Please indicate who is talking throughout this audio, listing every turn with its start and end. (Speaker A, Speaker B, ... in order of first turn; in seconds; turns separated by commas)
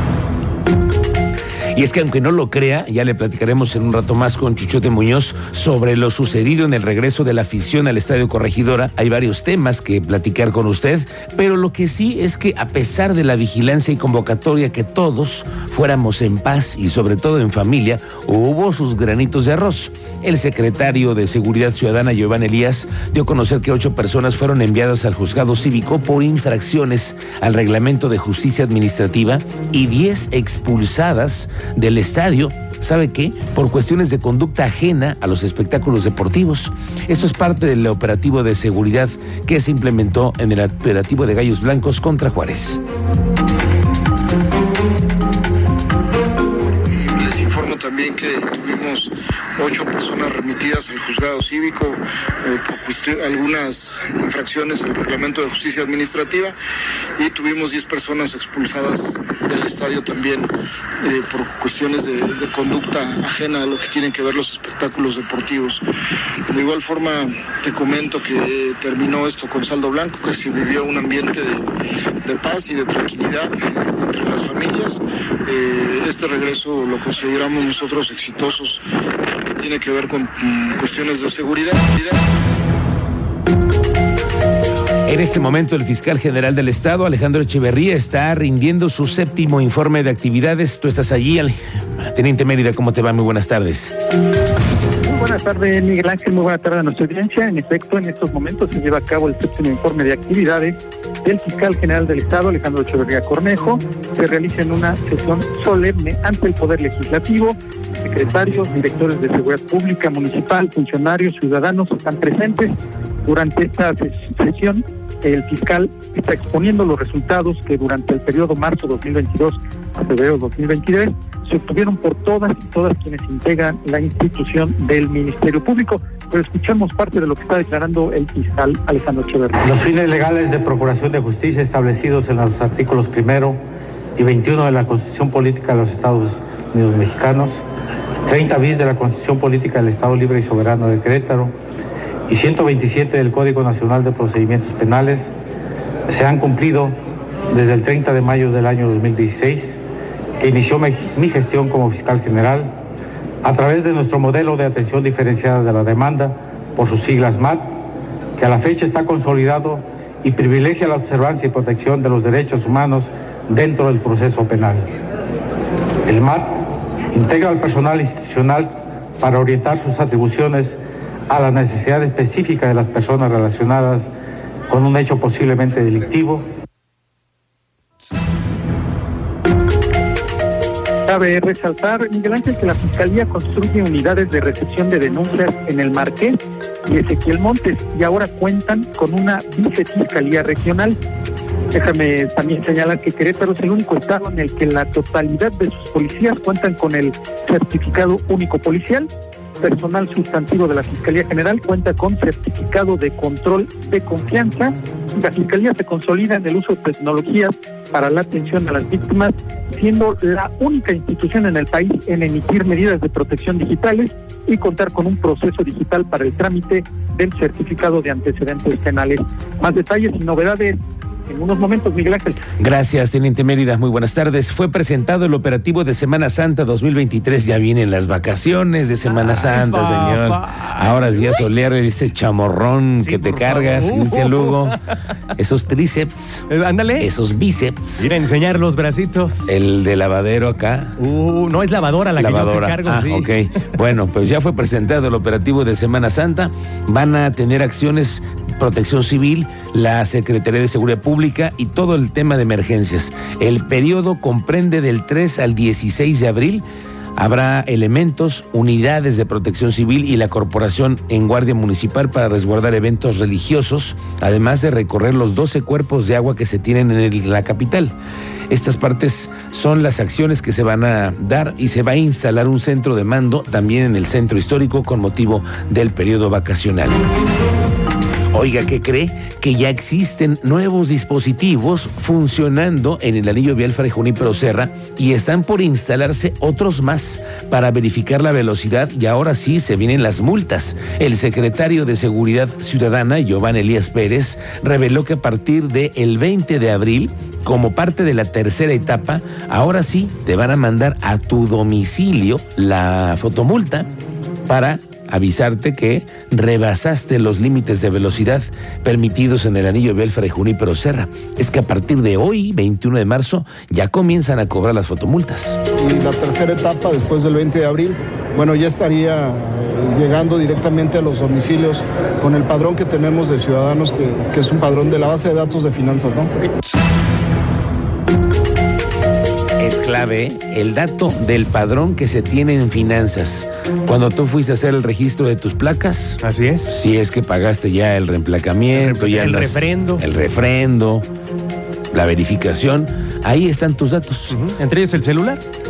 Speaker A: 1.7-42.8, Speaker B: 46.7-56.6, Speaker B: 57.2-60.5, Speaker B: 61.0-65.8, Speaker B: 66.5-71.7, Speaker B: 72.2-78.8, Speaker B: 79.4-82.2, Speaker A: 85.1-94.0, Speaker C: 95.1-112.7, Speaker C: 113.2-129.6, Speaker D: 129.6-133.6, Speaker D: 134.2-137.6, Speaker D: 138.2-141.5, Speaker D: 142.3-145.3, Speaker D: 146.1-147.0, Speaker D: 147.5-149.8, Speaker D: 150.4-152.8, Speaker D: 153.4-157.8, Speaker D: 158.4-164.9, Speaker D: 166.1-174.1, Speaker D: 174.7-176.5, Speaker C: 181.1-191.0, Speaker C: 191.7-199.1, Speaker C: 199.6-220.8, Speaker C: 221.3-222.4, Speaker A: 222.6-234.7, Speaker E: 229.2-231.2, Speaker E: 233.0-234.7, Speaker A: 235.4-238.1, Speaker E: 236.5-237.1, Speaker E: 238.0-239.5, Speaker A: 239.4-241.1, Speaker E: 241.0-243.3, Speaker A: 242.2-256.6, Speaker A: 257.1-267.9, Speaker A: 268.5-277.0, Speaker A: 278.3-303.9, Speaker A: 304.5-315.6, Speaker F: 315.8-326.3, Speaker A: 329.6-341.1, Speaker E: 336.2-336.9, Speaker E: 338.7-340.0, Speaker A: 341.9-344.4, Speaker E: 344.3-345.4